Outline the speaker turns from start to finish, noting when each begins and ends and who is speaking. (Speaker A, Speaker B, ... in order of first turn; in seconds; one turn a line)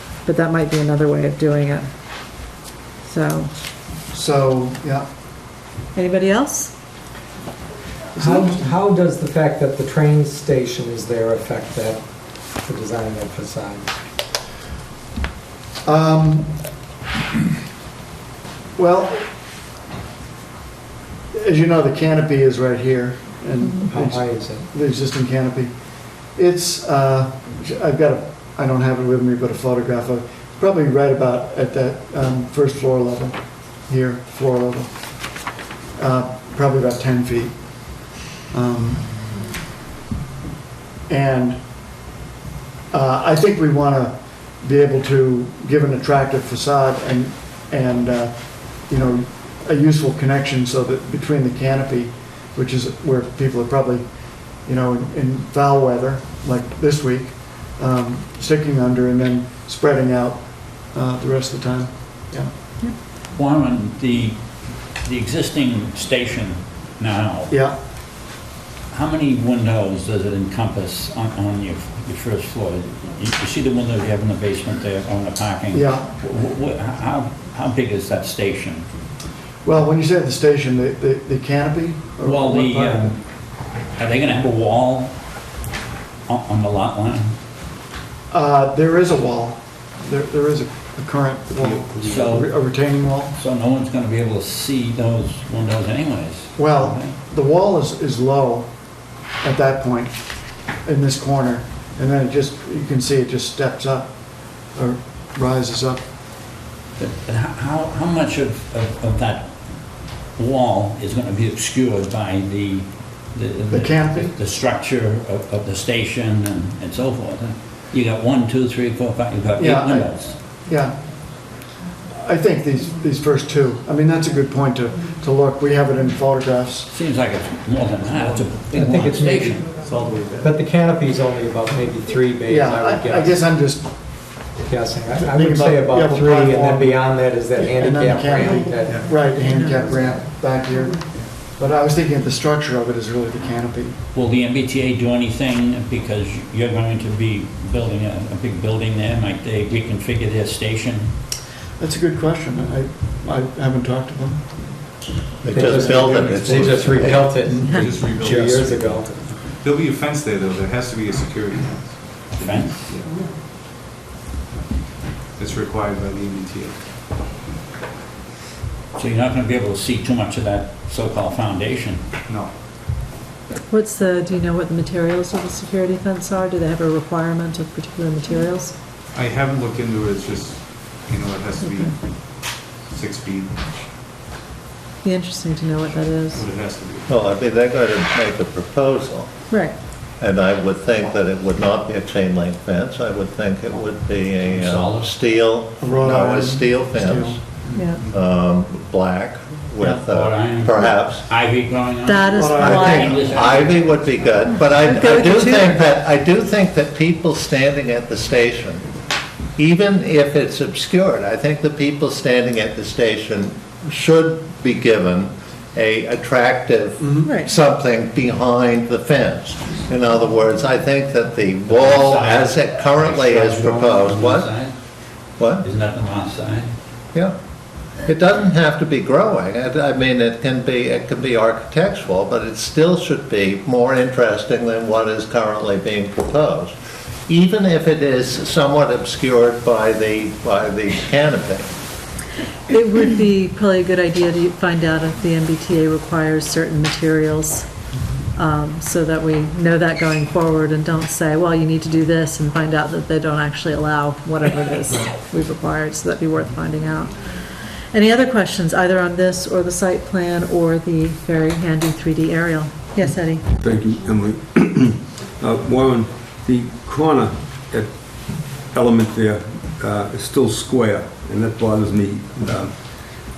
Speaker A: 0.2-1.9
Speaker A: 3.0-3.5
Speaker B: 4.1-5.1
Speaker A: 5.9-6.7
Speaker B: 8.2-8.7
Speaker C: 8.2-12.0
Speaker C: 12.6-13.9
Speaker B: 15.8-16.6
Speaker B: 18.8-19.3
Speaker B: 21.3-25.7
Speaker A: 23.6-23.9
Speaker C: 23.8-24.7
Speaker B: 26.3-35.5
Speaker B: 36.0-39.1
Speaker B: 41.1-41.6
Speaker B: 42.9-62.5
Speaker D: 63.3-64.4
Speaker D: 64.9-67.6
Speaker B: 67.5-67.8
Speaker D: 68.9-78.9
Speaker B: 75.7-76.1
Speaker B: 79.6-83.2
Speaker D: 82.2-83.2
Speaker D: 84.0-85.1
Speaker D: 86.3-87.3
Speaker B: 88.3-93.3
Speaker E: 91.6-92.3
Speaker D: 92.0-92.5
Speaker D: 93.3-97.1
Speaker B: 96.5-98.7
Speaker B: 99.4-100.2
Speaker B: 100.8-104.2
Speaker B: 104.7-106.0
Speaker D: 107.0-109.5
Speaker D: 110.3-120.4
Speaker B: 113.7-114.3
Speaker B: 119.6-121.0
Speaker B: 122.1-126.9
Speaker D: 126.9-129.7
Speaker E: 128.1-128.5
Speaker C: 128.7-129.7
Speaker E: 129.7-130.5
Speaker C: 130.4-133.4
Speaker B: 132.4-134.5
Speaker C: 134.7-139.0
Speaker B: 135.1-144.0
Speaker E: 138.8-139.2
Speaker A: 139.3-139.9
Speaker D: 144.1-151.1
Speaker B: 151.8-154.5
Speaker F: 155.4-157.4
Speaker C: 155.5-159.1
Speaker B: 156.1-156.6
Speaker E: 157.0-163.3
Speaker D: 162.4-162.9
Speaker E: 165.4-166.8
Speaker D: 168.9-172.0
Speaker E: 172.3-172.5
Speaker A: 173.7-178.7
Speaker E: 179.1-183.7
Speaker A: 181.6-181.9
Speaker A: 185.0-186.4
Speaker E: 186.3-187.2
Speaker F: 187.1-189.3
Speaker A: 189.5-189.7
Speaker F: 190.2-201.2
Speaker D: 194.5-195.1
Speaker B: 195.8-197.7
Speaker A: 197.7-198.0
Speaker D: 200.1-204.0
Speaker A: 202.0-203.2
Speaker B: 202.3-203.7
Speaker F: 202.6-208.9
Speaker A: 204.5-205.8
Speaker F: 209.6-224.5
Speaker B: 217.0-217.3
Speaker A: 217.2-217.5
Speaker D: 221.7-224.7
Speaker F: 225.4-225.7
Speaker D: 225.6-226.7
Speaker F: 228.0-236.7
Speaker F: 237.3-241.7
Speaker A: 242.7-247.7
Speaker A: 248.3-263.4
Speaker G: 263.6-272.7